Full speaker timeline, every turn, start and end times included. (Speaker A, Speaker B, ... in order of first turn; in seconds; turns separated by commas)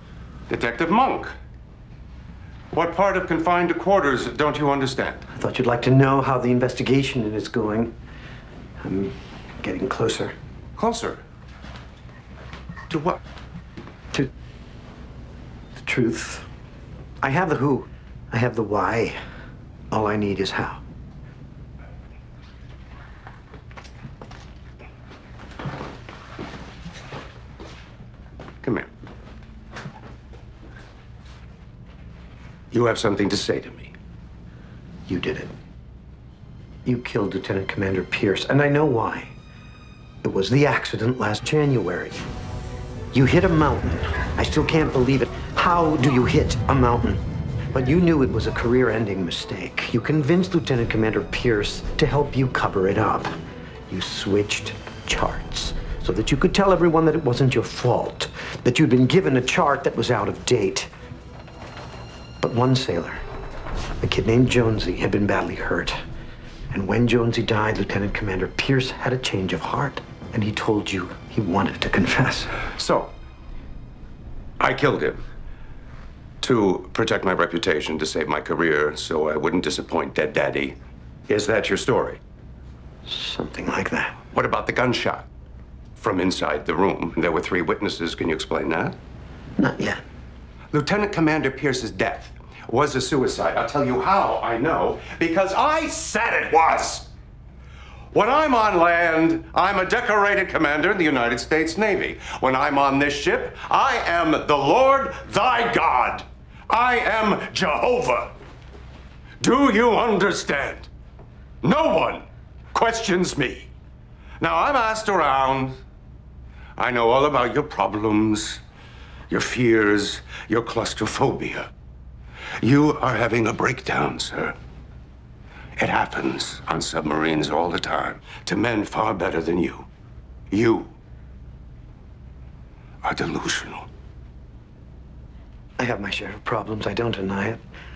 Speaker A: 0.5-1.3, Speaker A: 2.7-5.3, Speaker B: 5.3-7.9, Speaker B: 8.8-10.3, Speaker A: 10.8-11.2, Speaker A: 12.9-13.2, Speaker B: 15.8-16.5, Speaker B: 17.2-19.2, Speaker B: 19.9-20.8, Speaker A: 28.6-28.9, Speaker A: 32.7-33.9, Speaker B: 35.1-35.5, Speaker B: 36.9-39.3, Speaker B: 40.2-42.2, Speaker B: 43.1-47.2, Speaker B: 47.7-53.3, Speaker B: 53.9-60.9, Speaker B: 62.4-63.2, Speaker B: 64.0-66.0, Speaker B: 66.7-72.6, Speaker A: 72.6-73.1, Speaker A: 74.6-75.2, Speaker A: 76.4-80.8, Speaker A: 81.3-82.2, Speaker B: 83.1-84.1, Speaker A: 84.3-85.3, Speaker A: 86.0-89.0, Speaker B: 89.6-90.0, Speaker A: 90.7-97.1, Speaker A: 98.1-108.3, Speaker A: 109.4-110.9, Speaker A: 111.6-113.7, Speaker A: 114.4-115.8, Speaker A: 116.8-118.6, Speaker A: 119.3-121.7, Speaker A: 122.6-124.5, Speaker A: 125.8-129.9, Speaker A: 130.5-130.9, Speaker A: 133.0-133.9, Speaker B: 135.8-137.6